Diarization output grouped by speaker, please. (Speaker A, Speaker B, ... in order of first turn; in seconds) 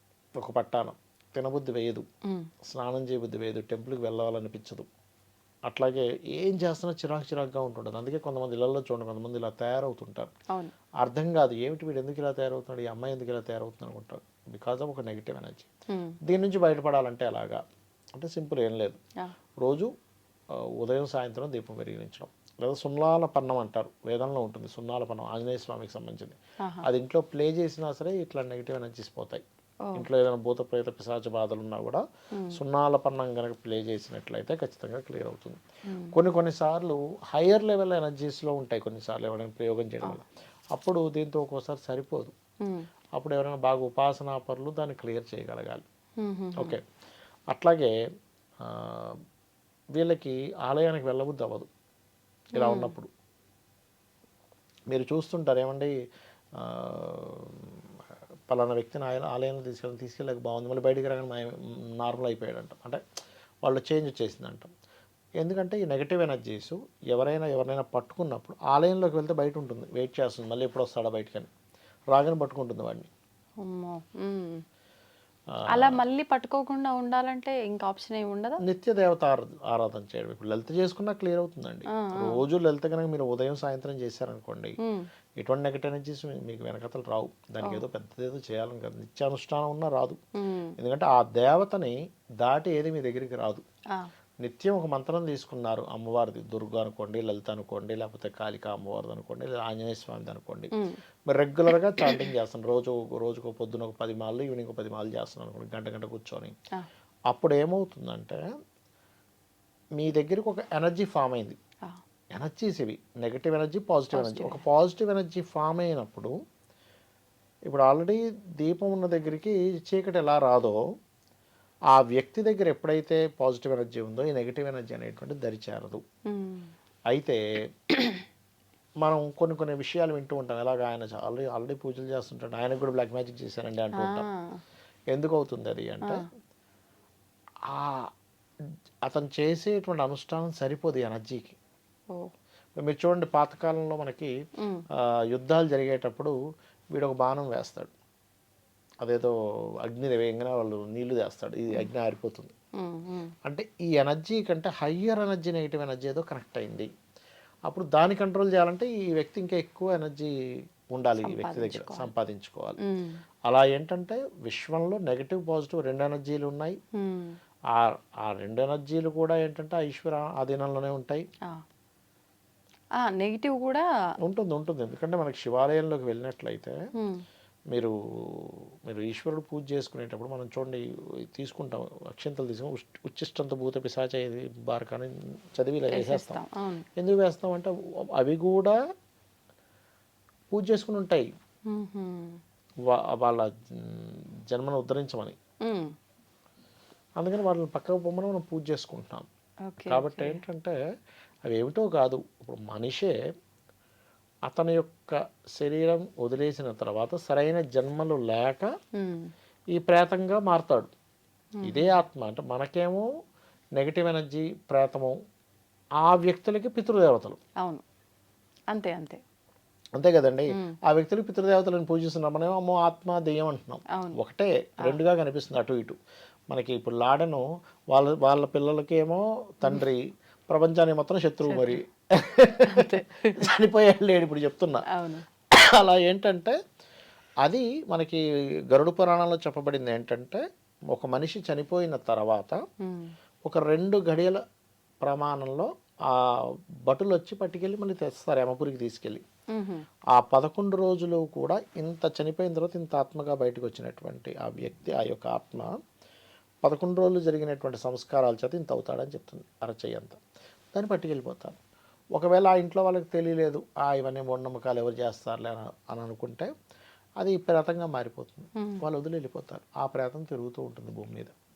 Speaker A: 0.4-2.1, 2.6-4.9, 5.7-10.3, 11.0-15.7, 16.2-17.6, 18.1-19.0, 19.6-19.9, 20.5-29.4, 29.9-42.3, 43.2-45.9, 46.6-46.8, 47.5-47.9, 48.6-49.2, 50.0-51.7, 52.5-53.1, 54.9-55.9, 56.6-57.9, 58.5-63.0, 63.6-64.7, 65.4-71.5, 72.1-73.1, 75.5-76.0, 78.6-84.8, 85.4-90.2, 90.8-93.6, 94.4-100.7, 101.3-106.5, 107.3-108.5, 110.0-111.6, 112.3-116.4, 117.7-120.8, 121.9-126.0, 127.1-128.2, 129.0-134.3, 135.1-136.2, 137.7-138.1, 139.0-141.6, 142.8-144.3, 144.9-146.4, 146.9-147.9, 149.0-152.5, 153.4-156.9, 157.7-160.3, 160.9-162.8, 163.5-166.8, 167.7-171.2, 174.2-176.8, 177.7-186.4, 187.0-188.8, 190.5-191.3, 192.8-195.4, 197.2-199.3, 199.9-200.8, 201.5-203.2, 204.5-208.7, 209.7-210.9, 211.6-213.1, 213.8-215.2, 216.0-217.4, 220.0-226.0, 226.5-234.9, 235.5-236.6, 237.4-242.6, 243.4-244.4, 245.0-249.2, 250.1-255.7, 256.6-260.2, 260.7-261.6, 262.1-266.5, 267.2-271.3
Speaker B: 15.9-16.2, 26.6-26.9, 32.3-32.6, 35.9-36.2, 46.2-46.8, 52.6-52.9, 73.6-74.6, 75.7-78.6, 81.9-82.5, 84.8-85.1, 90.4-90.8, 100.8-101.0, 114.1-114.6, 126.3-126.7, 133.9-134.6, 144.6-144.8, 152.8-153.3, 161.2-162.1, 162.8-163.2, 166.9-167.4, 173.0-173.8, 177.0-177.2, 185.9-186.9, 191.7-192.4, 195.6-195.9, 199.7-200.4, 208.9-209.3, 211.6-212.0, 218.7-219.2, 220.5-220.8, 223.9-224.2, 231.5-231.8, 232.7-233.4, 234.9-235.3, 242.8-243.1, 249.5-249.9, 268.6-268.8